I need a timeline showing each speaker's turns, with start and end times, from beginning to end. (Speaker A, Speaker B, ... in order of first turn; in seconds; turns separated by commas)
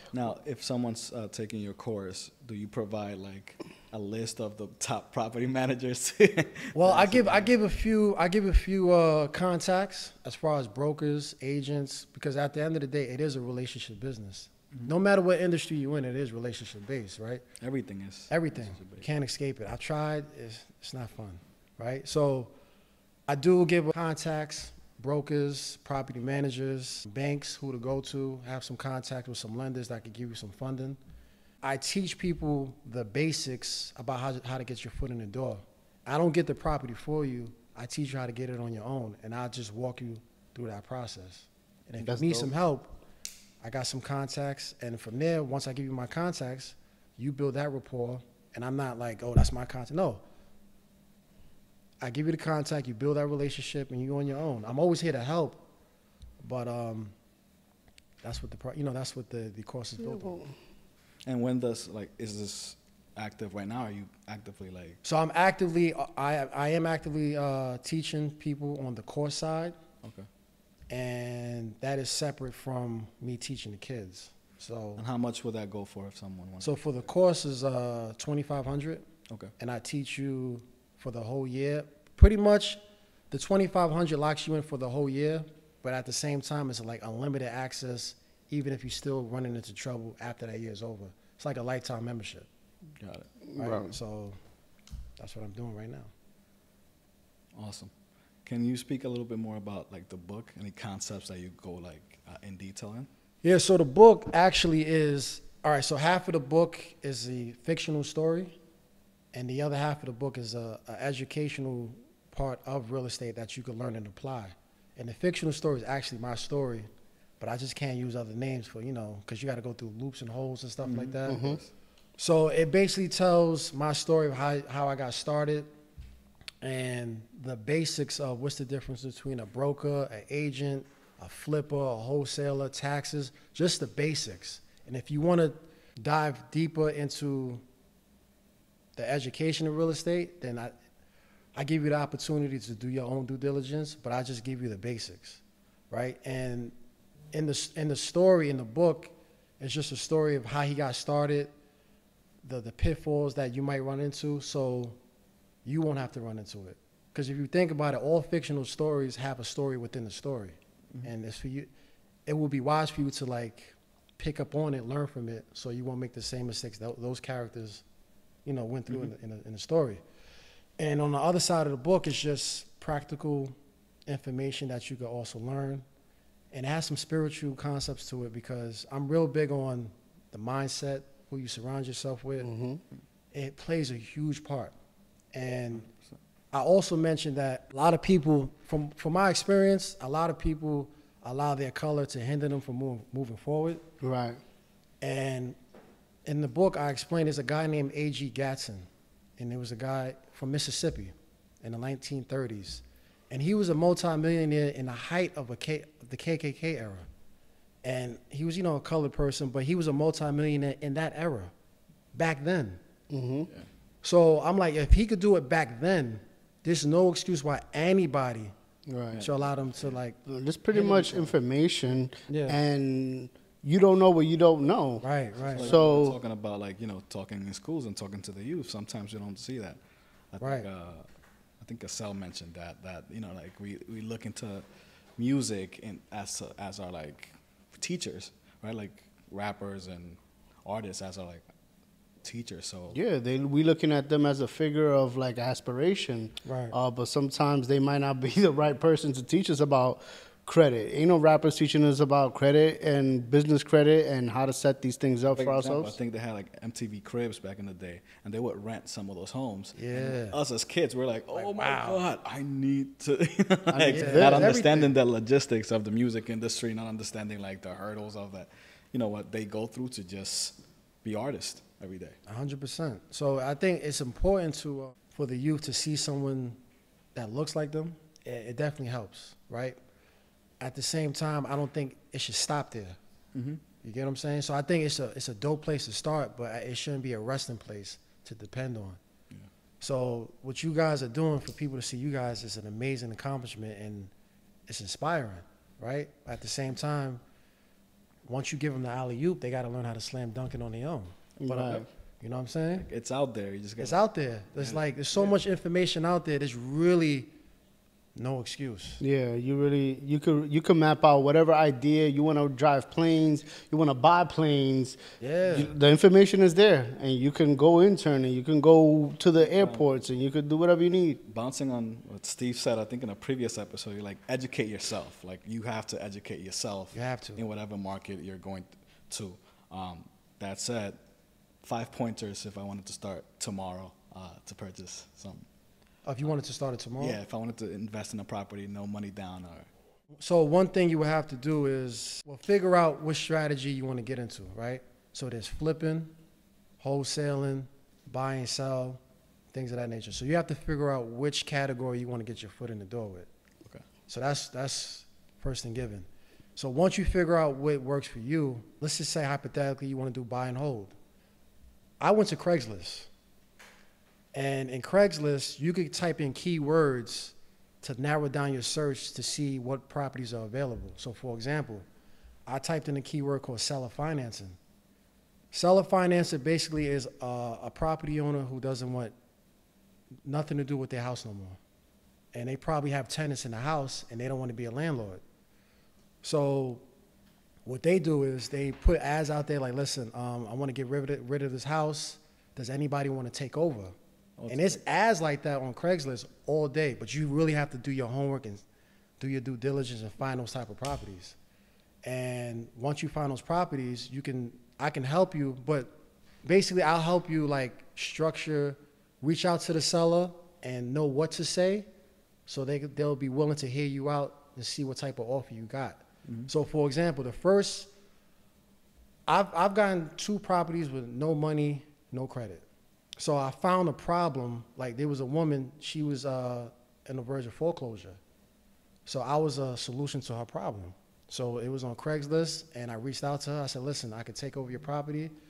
Speaker A: 0.1-7.5, Speaker B: 6.7-17.4, Speaker A: 17.6-19.0, Speaker B: 18.3-22.5, Speaker B: 23.3-31.0, Speaker B: 31.6-42.9, Speaker C: 42.0-42.5, Speaker B: 43.6-50.2, Speaker B: 52.0-55.6, Speaker B: 56.4-57.1, Speaker B: 58.2-60.4, Speaker C: 60.2-60.5, Speaker A: 61.2-65.0, Speaker B: 65.0-69.8, Speaker B: 70.9-75.0, Speaker A: 75.0-76.8, Speaker B: 76.6-79.0, Speaker B: 79.6-82.8, Speaker B: 83.3-92.5, Speaker A: 93.0-93.3, Speaker C: 93.5-93.9, Speaker B: 93.6-94.4, Speaker B: 95.2-96.1, Speaker A: 97.5-97.9, Speaker A: 98.4-103.1, Speaker B: 103.4-108.5, Speaker B: 109.3-116.9, Speaker B: 117.4-121.4, Speaker A: 120.8-121.7, Speaker C: 121.3-121.6, Speaker B: 122.2-125.7, Speaker B: 126.6-137.6, Speaker B: 138.9-140.7, Speaker B: 141.6-146.7, Speaker B: 147.3-151.5, Speaker B: 152.4-155.0, Speaker B: 155.6-161.7, Speaker B: 162.3-167.8, Speaker B: 168.4-170.0, Speaker B: 170.8-173.5, Speaker B: 174.1-175.8, Speaker B: 176.5-182.5, Speaker C: 182.4-182.8, Speaker B: 183.3-184.7, Speaker B: 185.3-185.9, Speaker B: 186.5-193.8, Speaker C: 194.0-194.4, Speaker B: 195.0-195.6, Speaker B: 196.2-207.1, Speaker B: 207.8-211.5, Speaker B: 212.1-212.8, Speaker C: 213.1-213.5, Speaker B: 214.0-218.5, Speaker C: 218.9-219.2, Speaker A: 219.1-219.5, Speaker B: 219.2-220.2, Speaker C: 220.2-225.0, Speaker B: 220.7-221.3, Speaker B: 222.3-222.6, Speaker B: 225.0-225.7, Speaker A: 225.4-229.8, Speaker C: 225.6-226.2, Speaker A: 230.3-231.1, Speaker B: 230.4-230.7, Speaker A: 231.6-234.6, Speaker A: 235.2-241.4, Speaker A: 242.2-243.0, Speaker C: 242.9-256.0, Speaker B: 246.4-246.7, Speaker A: 255.3-272.2, Speaker B: 259.8-260.4, Speaker B: 261.3-262.0, Speaker C: 263.7-264.6, Speaker B: 263.9-264.9, Speaker B: 272.3-276.6, Speaker B: 277.1-279.8, Speaker B: 280.6-283.0, Speaker A: 283.3-283.6, Speaker B: 283.8-289.0, Speaker B: 289.8-294.1, Speaker B: 294.7-297.2, Speaker B: 298.3-302.9, Speaker C: 301.4-301.9, Speaker A: 302.8-304.0, Speaker B: 303.8-307.3, Speaker A: 304.6-305.3, Speaker B: 308.1-309.0, Speaker C: 309.0-321.2, Speaker B: 315.2-315.7, Speaker A: 319.5-319.8, Speaker A: 321.2-331.0, Speaker B: 326.9-327.4, Speaker A: 331.6-335.4, Speaker B: 336.1-337.2, Speaker A: 337.0-339.7, Speaker B: 340.2-346.1, Speaker B: 346.8-349.0, Speaker B: 349.5-353.3, Speaker B: 354.1-360.9, Speaker B: 362.0-363.1, Speaker B: 364.3-371.9, Speaker B: 372.5-374.6, Speaker B: 375.5-379.1, Speaker B: 380.2-381.6, Speaker B: 382.3-385.2, Speaker B: 386.2-386.8, Speaker B: 387.6-393.9, Speaker A: 394.4-394.8, Speaker B: 394.5-398.6, Speaker B: 399.2-401.4, Speaker B: 402.0-405.9, Speaker B: 406.4-411.9, Speaker B: 412.5-417.9, Speaker B: 419.3-422.6, Speaker B: 423.2-428.2, Speaker B: 429.1-435.3